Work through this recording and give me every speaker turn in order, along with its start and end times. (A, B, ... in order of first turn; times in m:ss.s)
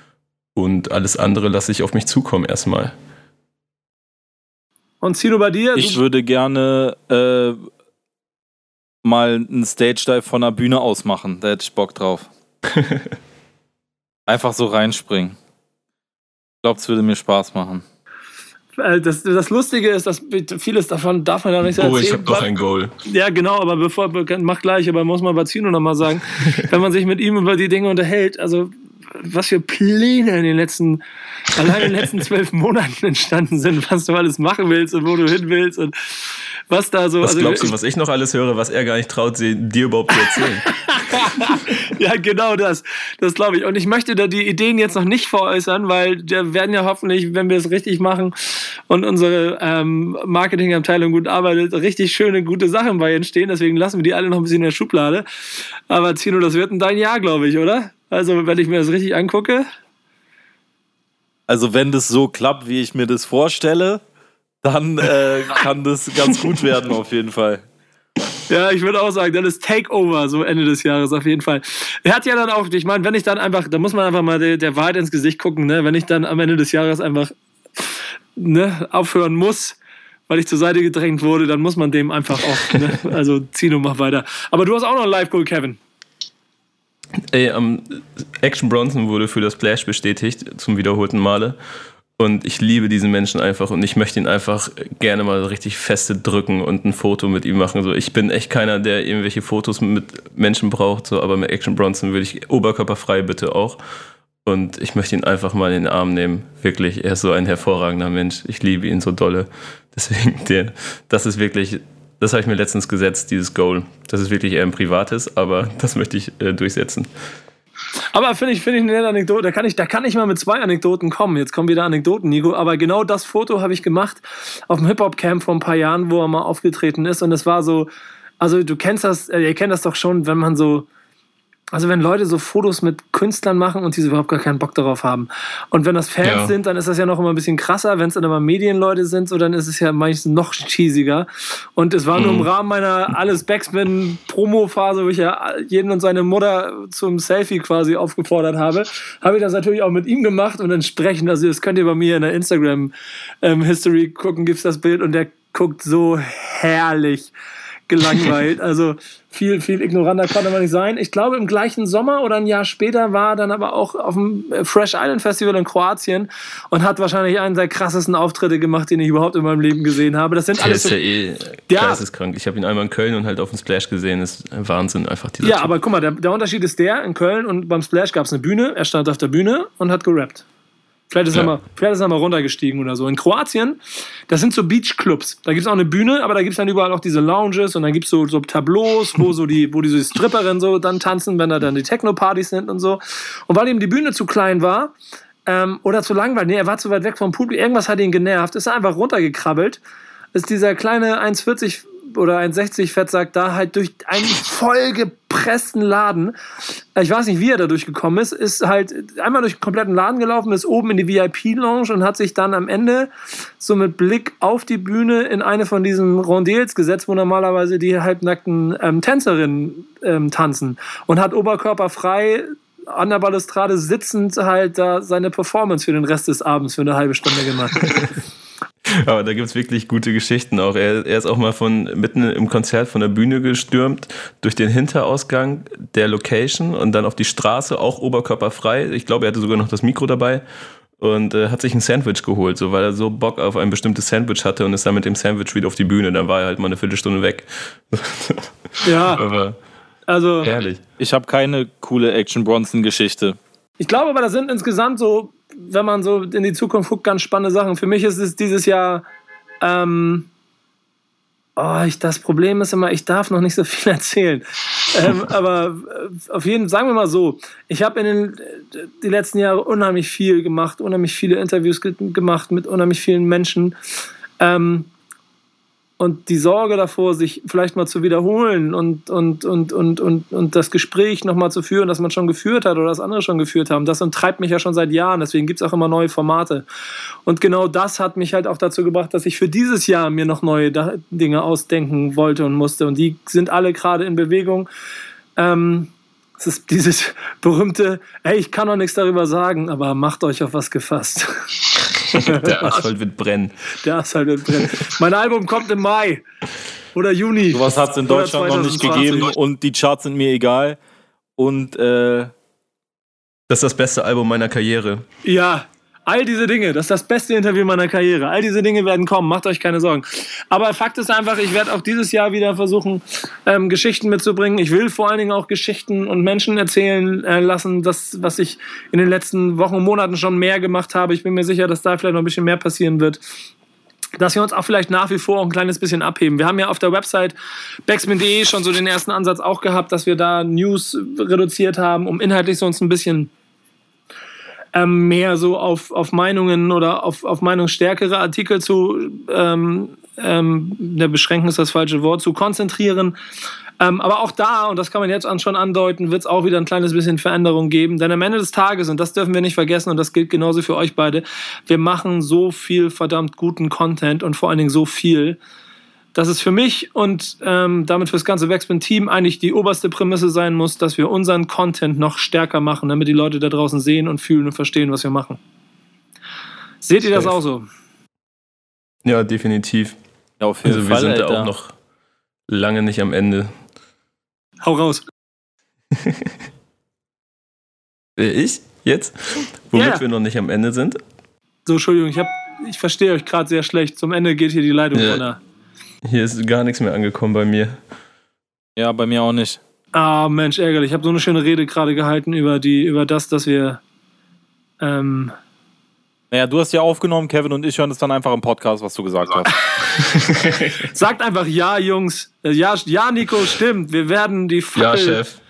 0:00.5-0:02.9 A
0:05.0-0:06.0 B
0:05.7-0:07.6 C
0:09.0-0:12.3 C
0:12.7-0:13.1 A
0:14.3-0:15.4 C
0:16.6-0:17.8 C
0:18.8-0:22.5 B
0:21.7-0:22.9 A
0:23.0-0:37.7 B
0:37.2-0:40.8 A
0:40.6-0:55.2 B
0:55.9-0:59.6 B
1:01.5-1:04.0 C
1:04.6-1:07.6 C
1:08.5-1:19.8 B
1:20.3-1:25.8 B
1:27.3-1:31.6 A
1:32.2-1:43.8 A
1:44.4-1:57.1 A
1:58.1-2:07.9 B
2:08.4-2:10.9 B
2:11.7-2:37.3 B
2:16.2-2:16.5 A
2:22.1-2:22.5 A
2:37.9-2:51.0 B
2:50.6-2:55.7 A
2:51.7-2:52.0 B
2:55.4-3:00.4 B
3:01.1-3:03.8 B
3:04.3-3:14.9 B
3:15.4-3:19.8 B
3:20.3-3:47.8 B
3:47.8-3:48.1 A
3:48.9-4:00.4 A
4:01.0-4:09.6 A
4:08.8-4:09.2 B
4:10.1-4:10.5 B
4:10.4-4:10.8 A
4:11.0-4:13.4 C
4:13.8-4:19.0 B
4:19.6-4:20.3 B
4:21.6-4:33.7 B
4:34.4-4:34.9 B
4:36.0-4:46.6 B
4:47.2-4:54.7 B
4:55.4-5:02.9 B
5:02.1-5:03.6 A
5:03.8-5:06.2 B
5:06.9-5:09.3 B
5:07.5-5:10.8 C
5:11.4-5:12.3 C
5:13.5-5:15.0 A
5:15.2-5:33.2 B
5:34.2-5:37.3 B
5:37.9-5:43.3 B
5:44.7-5:53.2 B
5:53.8-6:05.4 B
6:06.1-6:15.4 B
6:16.8-6:17.6 B
6:19.0-6:20.0 A
6:20.4-6:21.5 C
6:20.6-6:21.7 A
6:22.5-6:23.5 A
6:24.6-6:25.0 B
6:26.0-6:26.3 A
6:28.2-6:31.0 A
6:29.7-6:30.0 B
6:31.7-6:35.4 B
6:34.9-6:35.2 A
6:36.0-6:37.8 A
6:38.8-6:39.6 C
6:39.9-6:43.8 B
6:44.8-6:45.3 B
6:46.3-6:49.5 C
6:50.0-6:50.8 A
6:50.8-6:55.2 B
6:54.7-6:55.4 A